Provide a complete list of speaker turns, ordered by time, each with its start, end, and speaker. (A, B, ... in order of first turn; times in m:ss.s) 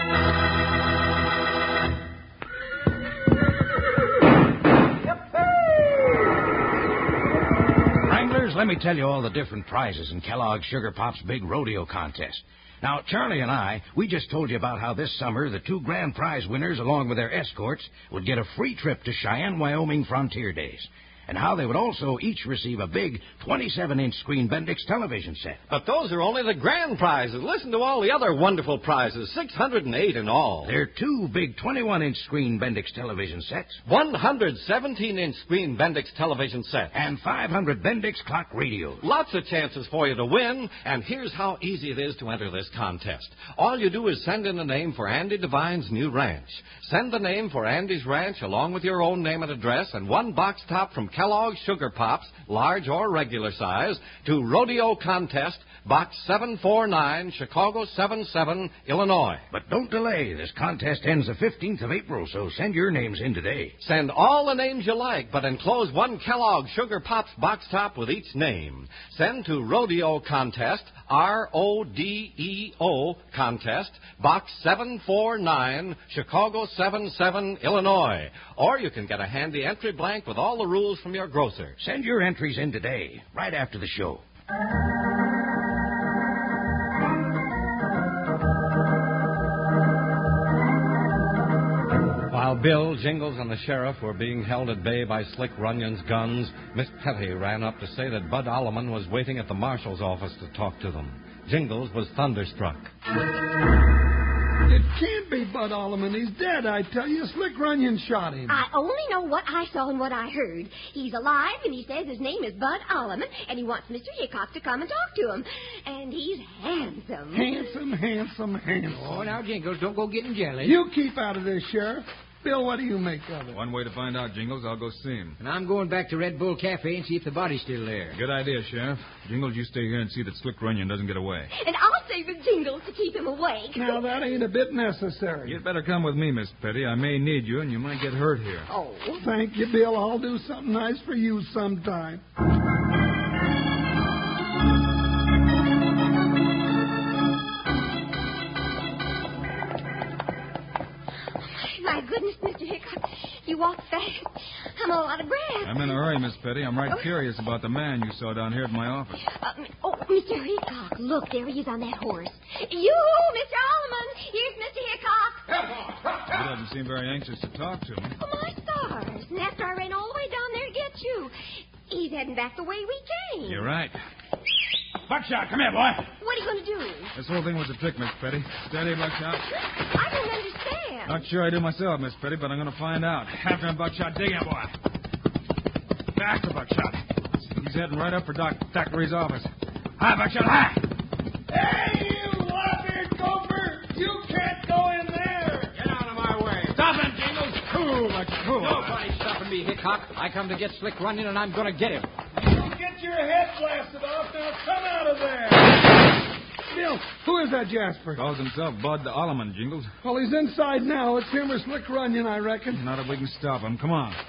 0:08.0-0:25.6 A
0:25.7-0:30.7 B
0:30.6-0:33.8 A
0:33.9-0:36.9 B
0:36.9-0:39.0 A
0:39.0-0:59.4 B
0:59.5-1:03.7 A
1:03.8-1:21.8 B
1:21.8-1:24.2 A
1:32.3-1:42.9 B
1:44.6-1:48.6 C
1:48.5-1:57.5 D
1:57.3-1:59.3 C
1:58.9-2:00.8 E
2:00.6-2:03.6 C
2:03.5-2:05.4 F
2:05.4-2:08.2 E
2:08.1-2:11.5 F
2:11.5-2:14.1 D
2:13.7-2:15.6 C
2:15.4-2:18.7 F
2:18.7-2:19.2 D
2:19.1-2:22.2 C
2:31.4-2:36.0 D
2:35.6-2:39.2 F
2:39.3-2:45.5 D
2:45.5-2:46.4 E
2:46.3-2:48.1 F
2:48.2-2:51.3 D
2:51.9-2:53.7 D
2:53.4-2:54.0 F
2:55.1-2:56.0 E
2:56.2-2:57.1 D
2:57.1-2:59.4 F
2:59.9-3:01.2 D
3:01.1-3:04.7 F
3:06.2-3:10.8 F
3:11.5-3:15.7 C
3:15.7-3:22.1 E
3:18.5-3:19.0 F
3:22.4-3:26.0 C
3:26.7-3:28.2 C
3:28.2-3:29.9 F
3:30.0-3:32.8 C
3:32.7-3:34.2 F